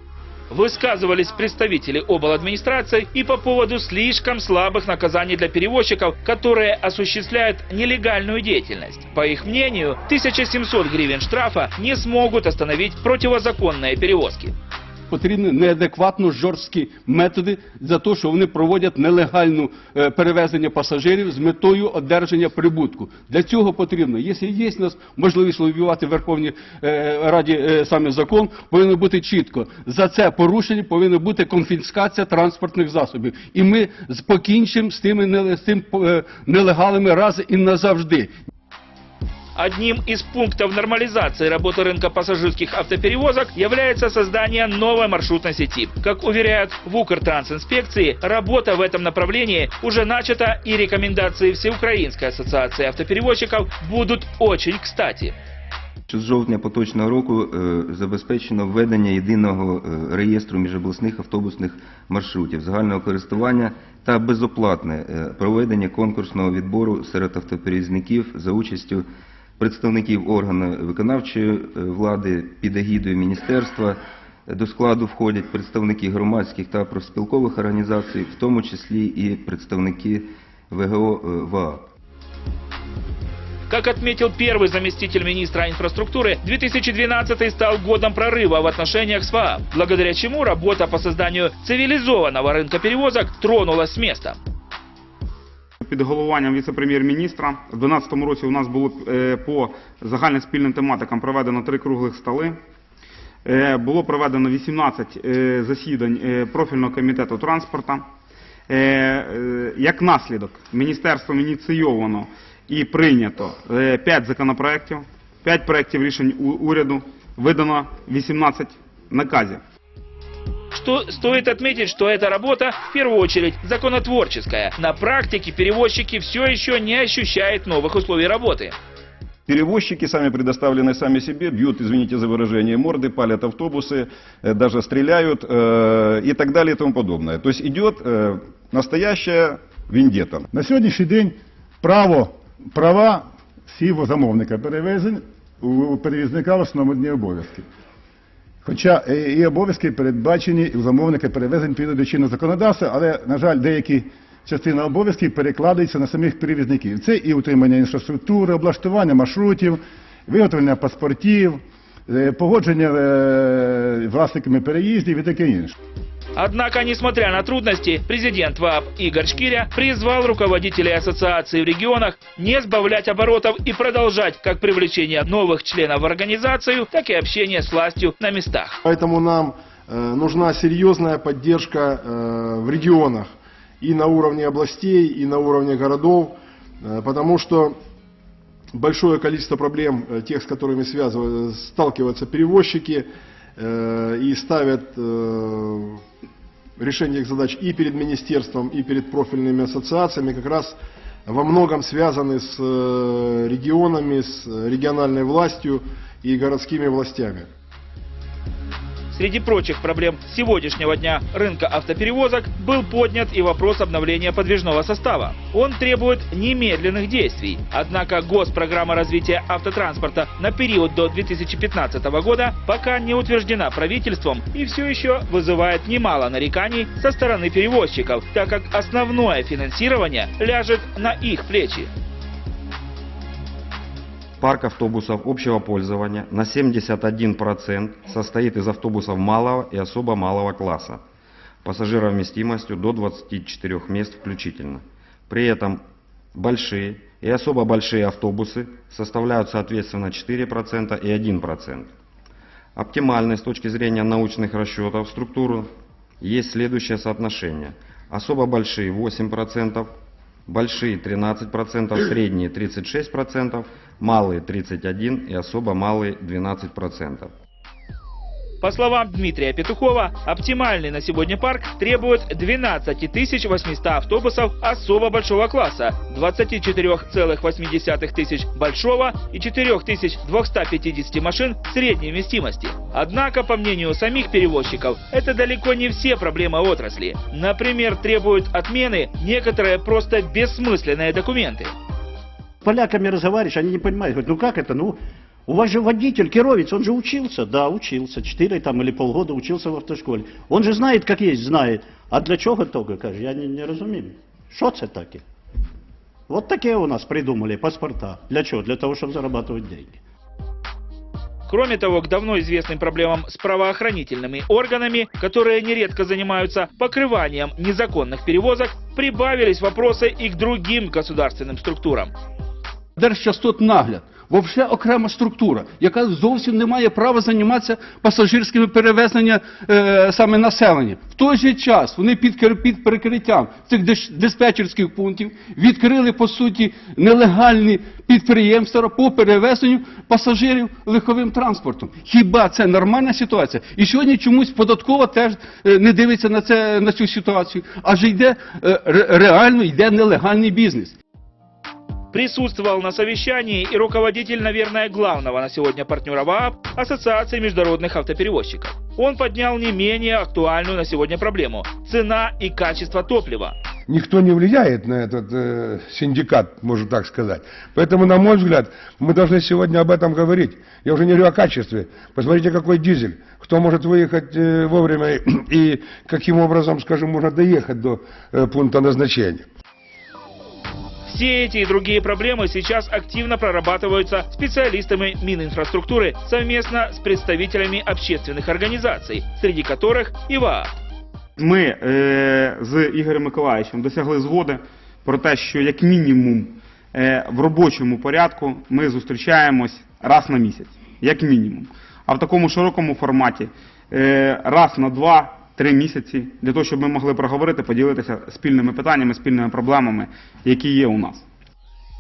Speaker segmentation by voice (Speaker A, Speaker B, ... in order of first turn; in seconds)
Speaker A: 0.5-14.5, 39.6-55.4, 83.7-94.4, 120.7-128.8, 166.3-178.8, 209.1-231.9, 268.6-291.7, 311.5-322.1, 352.1-363.6, 381.1-390.7
Speaker B: 15.1-38.3, 323.0-351.0
Speaker C: 56.1-69.0, 69.6-73.9, 74.5-81.8
Speaker D: 95.8-102.6, 103.5-108.1, 108.7-119.6, 391.4-411.2
Speaker E: 129.5-140.5
Speaker F: 140.5-147.7, 148.6-165.7
Speaker G: 178.8-183.3, 183.8-187.8, 188.7-193.1, 193.6-196.0, 196.8-207.5
Speaker H: 234.4-241.0, 241.6-245.8, 246.3-251.9, 252.8-255.7, 256.2-259.9, 260.5-267.3
Speaker I: 292.6-305.2, 306.3-309.9
Speaker J: 363.9-379.5